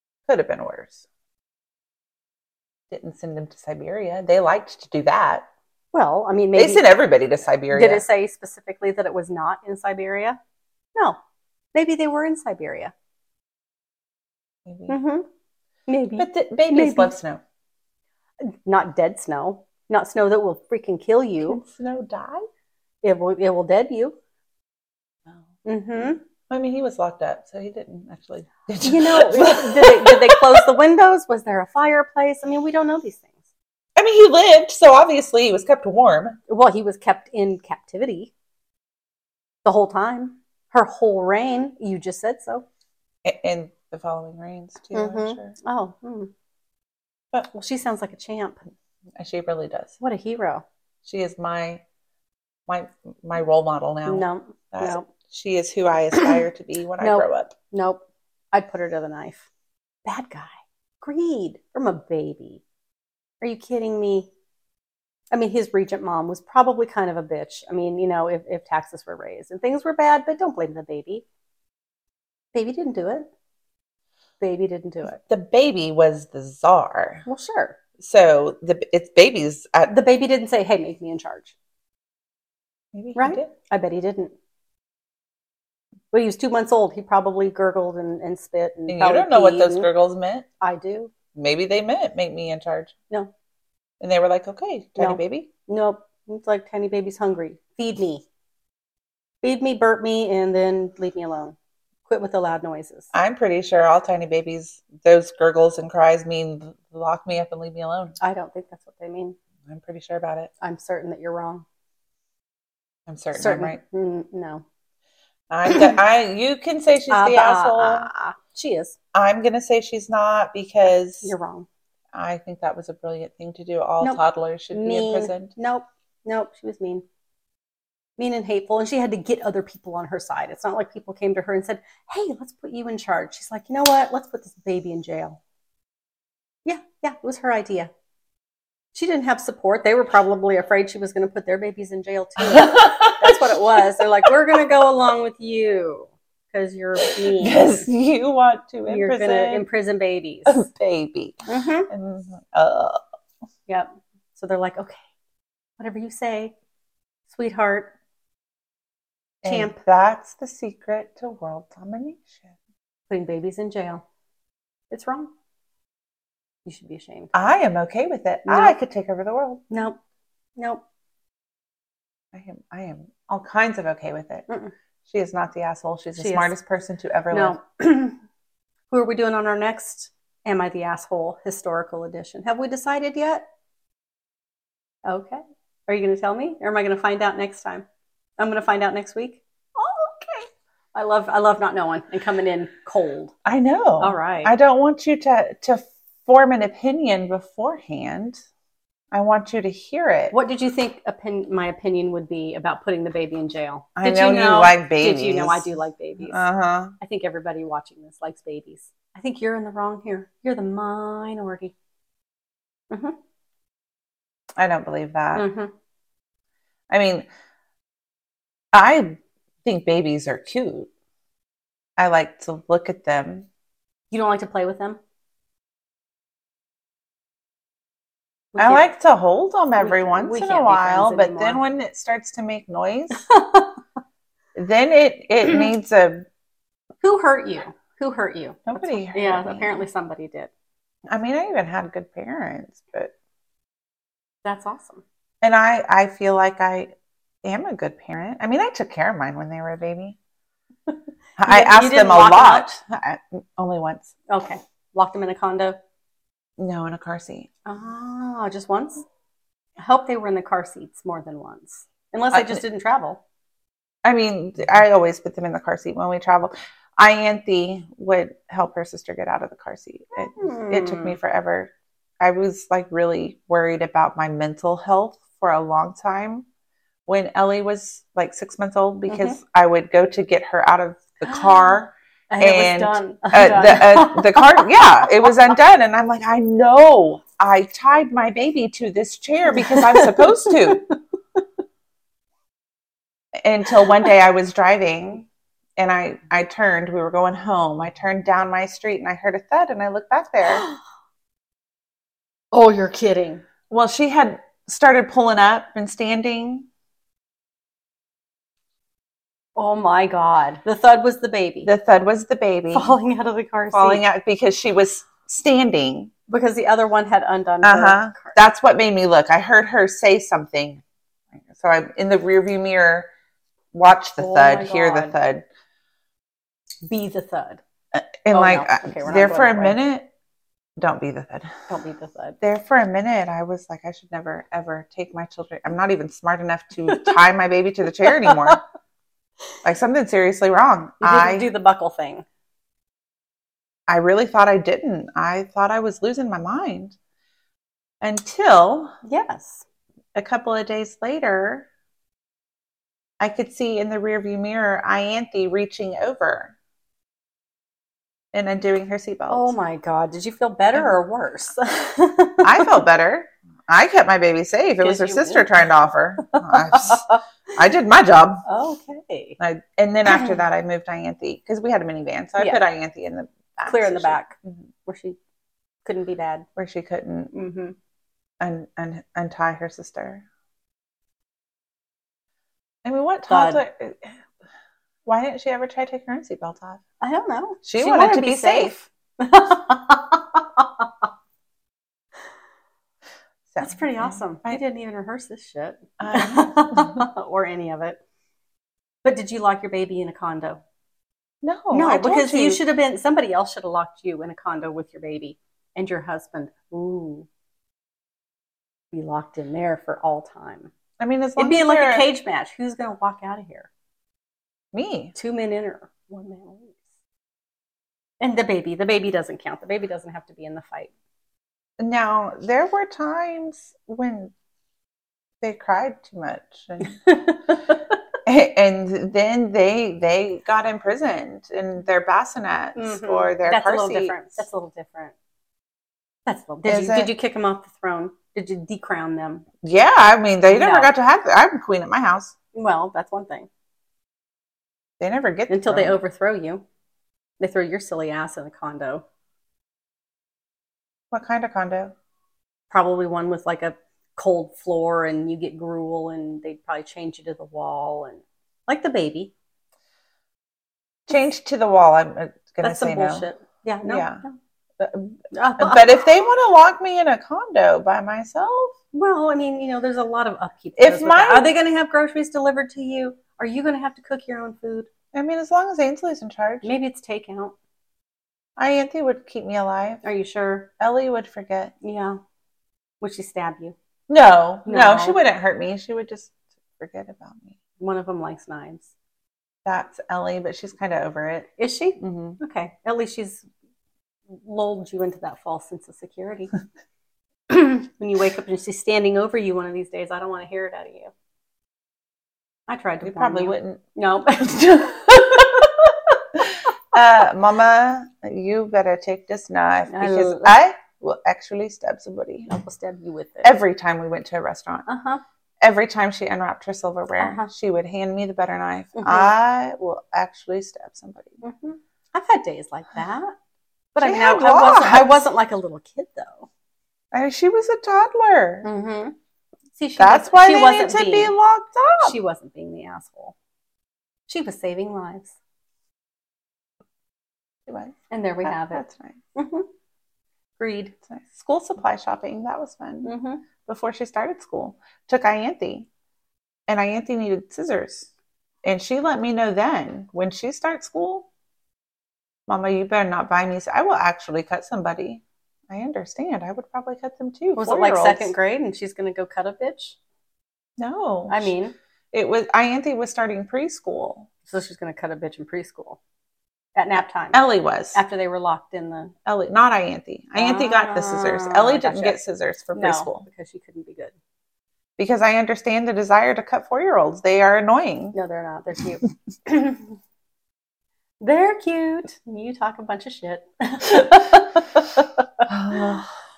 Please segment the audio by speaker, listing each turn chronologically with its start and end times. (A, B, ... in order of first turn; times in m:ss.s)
0:00.3-0:01.1 A
0:02.9-0:05.5 A
0:05.9-0:06.9 B
0:06.6-0:08.0 A
0:07.7-0:10.4 B
0:11.7-0:12.9 B
0:14.7-0:15.0 A
0:14.9-0:15.3 B
0:15.9-0:17.2 B
0:16.2-0:17.4 A
0:18.4-0:21.6 B
0:21.4-0:22.5 A
0:23.0-0:24.2 B
0:25.6-0:26.2 B
0:26.5-0:30.6 A
0:28.8-0:33.3 B
0:34.0-0:36.4 A
0:36.5-0:38.3 B
0:39.6-0:42.6 B
0:43.2-0:45.6 A
0:44.9-0:46.3 B
0:47.5-0:48.6 B
0:49.2-0:50.0 A
0:50.0-0:50.6 B
0:51.0-0:51.8 A
0:52.7-0:57.5 A
0:54.1-0:55.1 B
0:56.1-0:56.4 B
0:57.0-0:59.5 B
1:00.0-1:02.6 B
1:03.4-1:04.3 B
1:05.3-1:11.2 B
1:12.5-1:13.3 B
1:14.4-1:15.2 B
1:15.1-1:17.2 A
1:17.3-1:17.8 B
1:18.0-1:20.0 A
1:19.9-1:21.5 B
1:22.9-1:23.5 A
1:23.2-1:24.3 B
1:26.1-1:29.9 B
1:28.9-1:30.5 A
1:30.6-1:31.1 B
1:31.4-1:32.9 A
1:34.0-1:35.5 A
1:35.0-1:38.3 B
1:39.4-1:43.1 B
1:43.1-1:48.2 A
1:48.2-1:49.4 B
1:49.7-1:50.5 A
1:50.6-1:51.6 B
1:53.1-1:53.8 A
1:53.4-1:54.6 B
1:55.5-1:58.1 A
1:55.7-1:56.0 B
1:57.1-1:59.0 B
1:59.1-2:01.3 A
2:01.2-2:01.7 B
2:02.1-2:05.5 A
2:04.0-2:07.0 B
2:08.2-2:15.4 B
2:16.6-2:17.9 B
2:18.9-2:27.9 B
2:22.4-2:24.3 A
2:27.0-2:29.7 A
2:28.9-2:30.6 B
2:30.5-2:31.4 A
2:31.5-2:31.9 B
2:31.9-2:33.0 A
2:33.7-2:35.0 B
2:35.8-2:36.6 B
2:37.3-2:37.9 B
2:39.4-2:39.8 B
2:39.4-2:42.5 A
2:43.1-2:44.0 B
2:44.9-2:45.3 B
2:46.7-2:47.3 B
2:47.3-2:49.6 A
2:48.4-2:48.8 B
2:49.7-2:50.0 B
2:50.6-2:50.8 B
2:52.3-2:54.5 A
2:55.0-2:57.6 A
2:56.2-2:56.5 B
2:57.3-2:58.2 B
2:58.9-3:03.5 B
3:05.1-3:07.8 B
3:08.4-3:13.3 B
3:13.4-3:18.4 A
3:14.0-3:14.5 B
3:19.1-3:20.3 A
3:20.3-3:26.4 B
3:24.0-3:27.0 A
3:27.0-3:31.7 B
3:32.9-3:33.2 B
3:34.6-3:35.5 A
3:35.4-3:35.7 B
3:36.9-3:37.3 A
3:38.7-3:40.9 A
3:42.0-3:43.5 A
3:44.1-3:45.0 B
3:48.5-3:48.8 B
3:48.6-3:53.3 A
3:49.8-3:51.6 B
3:53.3-3:53.8 B
3:54.6-3:56.2 A
3:57.0-4:00.5 B
3:58.7-3:59.9 A
4:01.1-4:03.1 A
4:04.4-4:05.0 B
4:05.4-4:06.9 A
4:07.4-4:10.2 A
4:11.4-4:14.1 A
4:11.4-4:12.7 B
4:14.3-4:15.8 B
4:16.6-4:17.5 A
4:17.7-4:19.0 B
4:19.8-4:23.2 B
4:22.3-4:22.6 A
4:24.0-4:36.5 A
4:30.2-4:31.2 B
4:37.1-4:50.8 A
4:39.1-4:39.4 B
4:41.3-4:41.8 B
4:42.3-4:45.6 B
4:49.5-4:51.0 B
4:53.4-5:00.6 A
5:00.5-5:00.8 B
5:02.5-5:03.4 B
5:03.7-5:06.7 A
5:09.6-5:11.7 B
5:11.6-5:13.0 A
5:12.7-5:14.0 B
5:13.7-5:16.1 A
5:16.3-5:18.4 B
5:17.6-5:20.8 A
5:21.5-5:23.1 A
5:23.7-5:25.5 A
5:24.2-5:25.2 B
5:26.9-5:27.6 B
5:27.9-5:30.1 A
5:28.3-5:29.8 B
5:30.8-5:31.5 A
5:31.7-5:32.4 B
5:32.4-5:38.6 A
5:38.1-5:38.6 B
5:39.6-5:41.5 A
5:41.0-5:42.2 B
5:43.9-5:47.0 A
5:48.0-5:48.9 A
5:49.0-5:49.6 B
5:50.2-5:51.7 A
5:53.2-5:56.6 A
5:58.3-5:59.5 A
5:59.3-6:02.8 B
6:02.4-6:08.4 A
6:04.8-6:05.5 B
6:06.2-6:07.2 B
6:08.5-6:09.4 B
6:09.4-6:14.6 A
6:10.1-6:10.3 B
6:13.7-6:15.2 B
6:15.8-6:16.5 B
6:16.6-6:17.3 A
6:17.3-6:17.8 B
6:18.4-6:20.2 A
6:22.8-6:24.2 A
6:23.3-6:23.6 B
6:25.1-6:26.8 A
6:27.0-6:30.9 B
6:27.6-6:28.8 A
6:33.5-6:34.6 A
6:33.6-6:38.0 B
6:36.0-6:37.0 A
6:39.0-6:40.6 B
6:41.4-6:42.6 A
6:41.7-6:47.3 B
6:48.9-6:50.7 B
6:51.0-6:52.1 A
6:51.4-6:53.7 B
6:54.7-6:55.2 A
6:55.2-6:56.8 B
6:58.2-7:00.9 B
7:01.8-7:04.3 A
7:05.4-7:07.0 A
7:07.1-7:07.8 B
7:08.3-7:14.4 A
7:12.8-7:15.1 B
7:16.3-7:19.5 B
7:16.6-7:17.1 A
7:19.6-7:22.3 A
7:20.5-7:20.9 B
7:22.5-7:23.5 B
7:25.0-7:26.0 A
7:25.5-7:26.6 B
7:27.4-7:29.0 B
7:31.1-7:31.9 A
7:32.7-7:39.3 B
7:41.1-7:43.3 A
7:42.6-7:44.4 B
7:43.9-7:44.2 A
7:44.8-7:48.8 A
7:45.3-7:46.0 B
7:48.9-7:54.9 B
7:50.8-7:51.5 A
7:55.1-7:56.8 A
7:56.6-7:57.6 B
7:58.6-8:00.0 A
8:00.0-8:00.7 B
8:00.8-8:01.7 A
8:01.8-8:02.2 B
8:03.0-8:03.8 B
8:04.1-8:07.6 A
8:04.7-8:05.2 B
8:07.8-8:08.9 B
8:09.6-8:11.5 A
8:11.6-8:13.5 B
8:12.0-8:12.4 A
8:14.3-8:16.5 B
8:17.5-8:21.1 B
8:22.7-8:25.9 B
8:23.0-8:23.8 A
8:24.4-8:25.7 A
8:26.9-8:32.5 A
8:29.9-8:30.6 B
8:32.5-8:33.5 B
8:33.4-8:34.9 A
8:34.9-8:35.2 B
8:35.6-8:41.4 A
8:37.2-8:37.5 B
8:39.0-8:39.3 B
8:41.4-8:43.3 B
8:43.9-8:46.5 B
8:44.0-8:45.3 A
8:47.1-8:48.7 A
8:48.6-8:49.2 B
8:49.8-8:51.4 B
8:50.0-8:52.2 A
8:52.0-8:53.4 B
8:54.3-8:55.4 B
8:57.7-8:59.2 A
8:58.1-8:58.8 B
8:59.4-8:59.7 B
9:00.6-9:01.0 B
9:01.1-9:03.1 A
9:03.0-9:03.4 B
9:03.6-9:05.9 A
9:06.7-9:08.1 A
9:08.6-9:11.3 A
9:12.5-9:18.3 A
9:17.6-9:20.0 B
9:20.8-9:21.6 A
9:21.3-9:21.8 B
9:22.1-9:24.3 A
9:24.5-9:26.0 B
9:26.8-9:29.1 B
9:27.3-9:28.0 A
9:29.3-9:33.2 A
9:30.4-9:32.2 B
9:32.8-9:34.1 B
9:35.0-9:38.2 A
9:38.1-9:40.0 B
9:41.2-9:45.5 B
9:45.5-9:46.1 A